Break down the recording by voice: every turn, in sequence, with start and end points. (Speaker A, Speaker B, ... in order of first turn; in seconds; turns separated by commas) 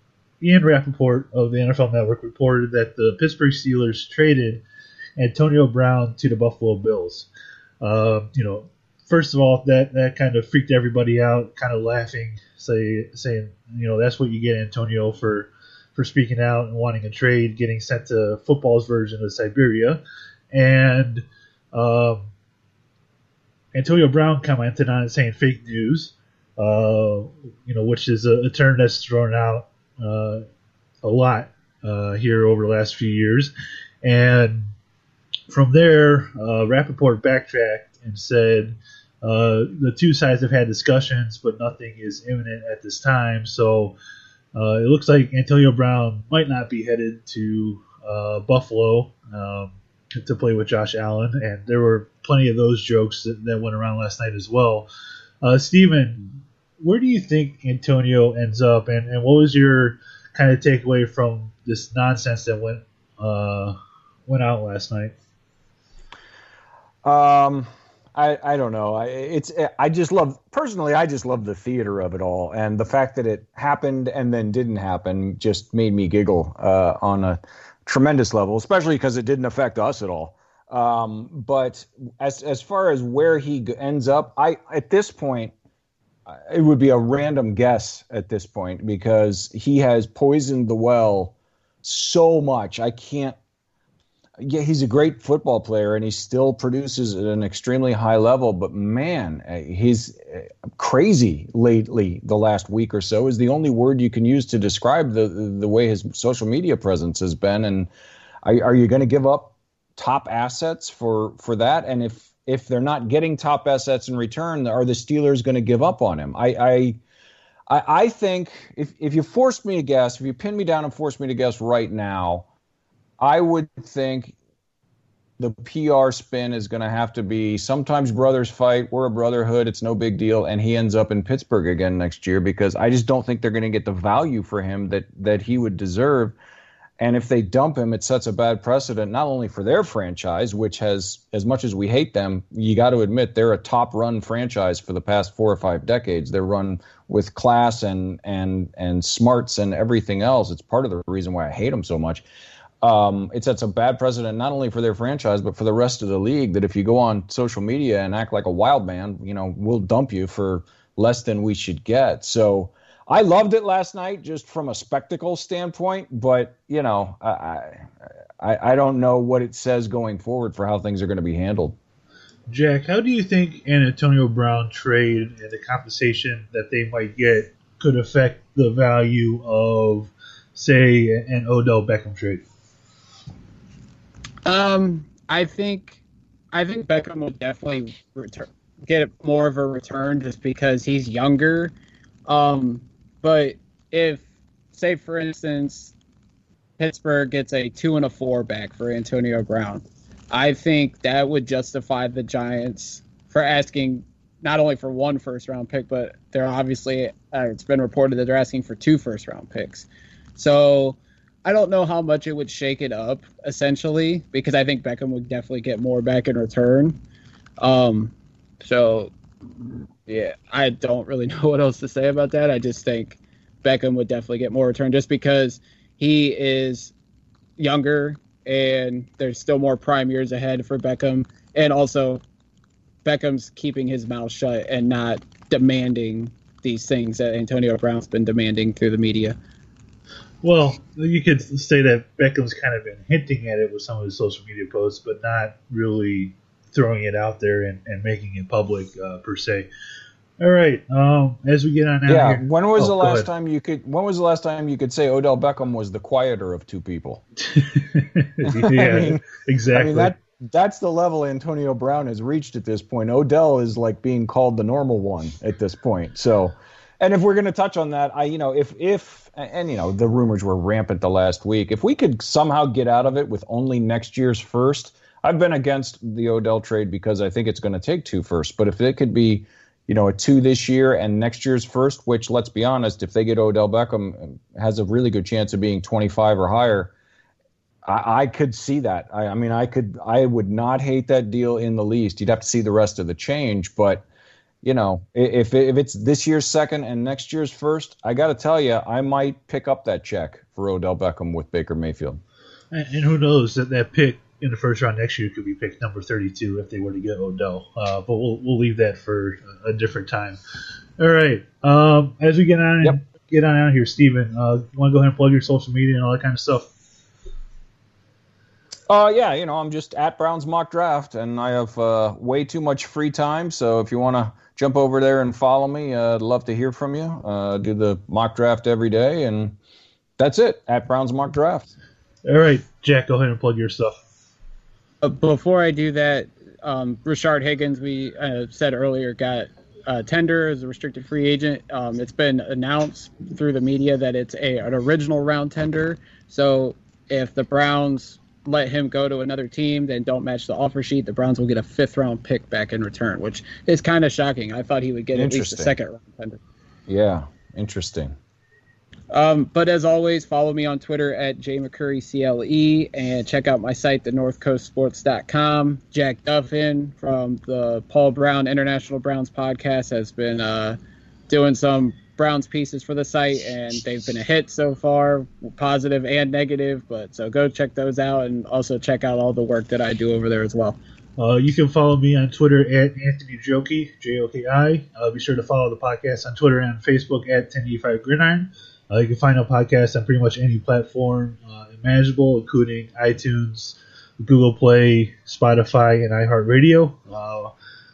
Speaker A: 0.4-4.6, Speaker A: 5.2-7.3, Speaker A: 7.8-22.3, Speaker A: 23.7-30.4, Speaker A: 31.0-33.5, Speaker A: 34.0-34.7, Speaker A: 35.5-43.9, Speaker A: 44.5-54.9, Speaker A: 55.4-63.8, Speaker A: 64.3-65.1, Speaker B: 67.0-85.5, Speaker B: 86.3-93.4, Speaker B: 94.4-107.9, Speaker B: 108.4-117.0, Speaker B: 117.7-122.5, Speaker B: 123.2-124.3, Speaker B: 125.4-136.3, Speaker B: 137.0-152.2, Speaker B: 152.8-167.9, Speaker B: 168.4-171.8, Speaker A: 172.5-182.4, Speaker C: 184.4-191.7, Speaker C: 192.2-195.9, Speaker C: 196.8-217.0, Speaker C: 217.6-219.1, Speaker C: 220.1-226.9, Speaker C: 227.6-232.2, Speaker C: 233.0-239.4, Speaker A: 240.4-249.7, Speaker A: 250.4-253.3, Speaker B: 252.1-257.2, Speaker A: 257.4-260.1, Speaker B: 258.4-286.9, Speaker B: 287.8-294.0, Speaker B: 294.6-302.2, Speaker A: 302.7-310.4, Speaker A: 311.0-316.7, Speaker B: 318.9-329.6, Speaker B: 330.2-331.7, Speaker A: 332.2-334.0, Speaker C: 335.0-356.4, Speaker B: 355.1-355.7, Speaker B: 356.9-358.1, Speaker C: 359.1-370.8, Speaker C: 371.3-380.8, Speaker A: 381.2-397.5